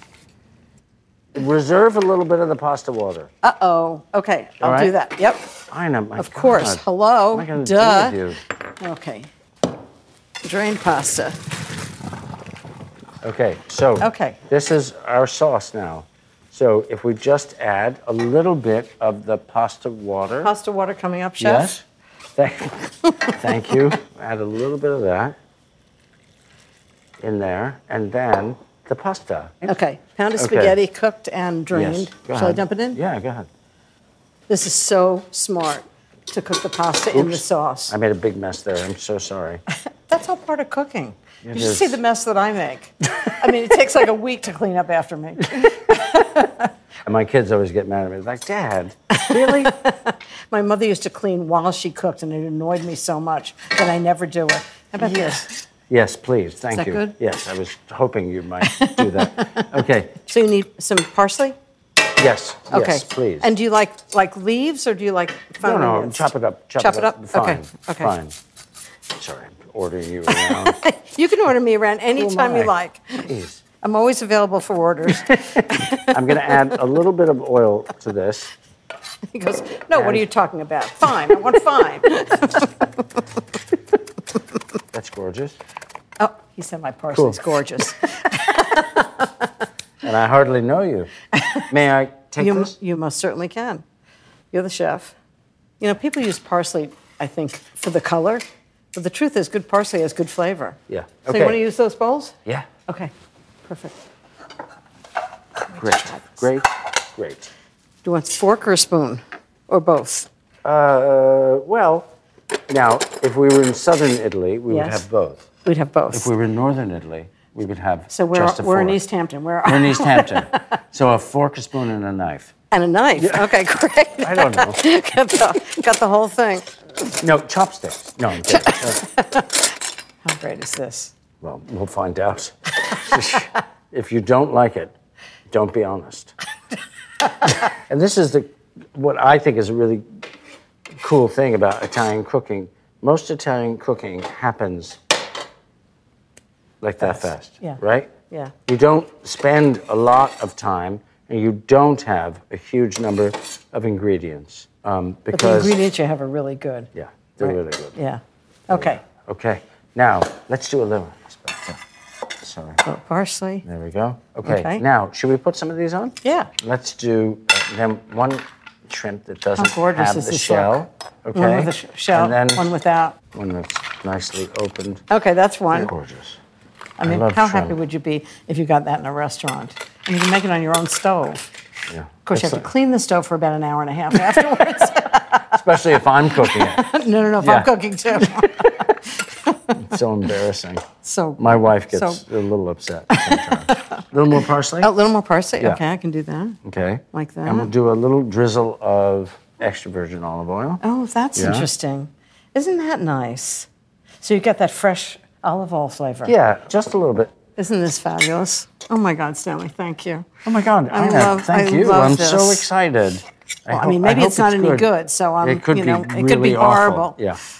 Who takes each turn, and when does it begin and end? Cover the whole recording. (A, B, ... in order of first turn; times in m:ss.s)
0:01.3-0:03.3 A
0:03.4-0:05.5 B
0:04.6-0:05.0 A
0:05.7-0:08.4 A
0:06.2-0:08.2 B
0:08.8-0:09.3 B
0:10.4-0:11.4 B
0:13.2-0:20.5 A
0:14.0-0:14.4 B
0:20.4-0:21.7 B
0:21.4-0:21.8 A
0:22.4-0:25.4 A
0:23.0-0:23.8 B
0:27.2-0:29.8 A
0:29.6-0:33.0 B
0:30.4-0:30.8 A
0:31.7-0:33.5 A
0:34.5-0:37.9 B
0:37.1-0:39.6 A
0:40.1-0:46.7 B
0:41.4-0:42.0 A
0:47.0-0:49.7 A
0:49.1-0:55.5 B
0:55.0-1:00.2 A
0:56.7-0:57.1 B
0:58.6-0:59.6 B
1:00.2-1:01.5 B
1:02.2-1:03.5 A
1:02.7-1:08.1 B
1:05.6-1:08.3 A
1:09.1-1:10.8 A
1:10.3-1:13.3 B
1:12.2-1:13.6 A
1:13.8-1:16.7 B
1:15.6-1:18.5 A
1:19.3-1:22.7 B
1:19.9-1:20.2 A
1:24.9-1:25.6 A
1:26.2-1:29.3 B
1:27.1-1:27.4 A
1:30.0-1:31.1 A
1:31.4-1:31.7 B
1:31.7-1:32.7 A
1:32.4-1:33.8 B
1:34.5-1:35.1 B
1:35.8-1:42.4 B
1:40.9-1:41.6 A
1:42.9-1:43.1 B
1:43.7-1:43.9 B
1:45.7-1:46.4 B
1:45.7-1:47.5 A
1:48.0-1:50.3 B
1:50.6-1:52.1 A
1:52.7-1:55.5 A
1:54.7-1:55.0 B
1:55.6-1:56.3 B
1:56.1-1:59.0 A
1:58.1-2:00.6 B
1:59.6-2:02.5 A
2:02.7-2:06.7 B
2:03.2-2:03.6 A
2:04.2-2:04.8 A
2:07.1-2:09.0 A
2:08.5-2:09.6 B
2:10.2-2:11.1 B
2:11.4-2:14.9 A
2:15.5-2:16.3 A
2:17.4-2:20.2 A
2:21.0-2:25.0 A
2:26.8-2:28.1 A
2:27.0-2:28.5 B
2:28.7-2:35.8 A
2:35.3-2:36.9 B
2:36.9-2:37.9 A
2:37.4-2:39.0 B
2:38.7-2:41.8 A
2:42.4-2:42.8 A
2:42.8-2:43.6 B
2:43.6-2:52.6 A
2:44.4-2:44.8 B
2:46.2-2:46.5 B
2:49.6-2:50.7 B
2:51.3-2:53.2 B
2:53.3-2:55.0 A
2:55.1-2:55.9 B
2:55.7-2:56.4 A
2:57.0-3:01.4 B
2:57.0-2:57.7 A
3:01.9-3:02.7 A
3:02.2-3:05.6 B
3:05.4-3:09.0 A
3:06.3-3:09.8 B
3:09.7-3:10.8 A
3:11.0-3:12.2 B
3:11.4-3:14.9 A
3:13.1-3:14.0 B
3:14.8-3:16.6 B
3:16.6-3:20.8 A
3:17.1-3:17.7 B
3:20.8-3:23.7 B
3:21.3-3:21.7 A
3:24.2-3:26.3 B
3:26.2-3:27.3 A
3:27.6-3:30.3 B
3:30.4-3:34.9 A
3:30.9-3:32.7 B
3:33.7-3:37.2 B
3:35.4-3:37.4 A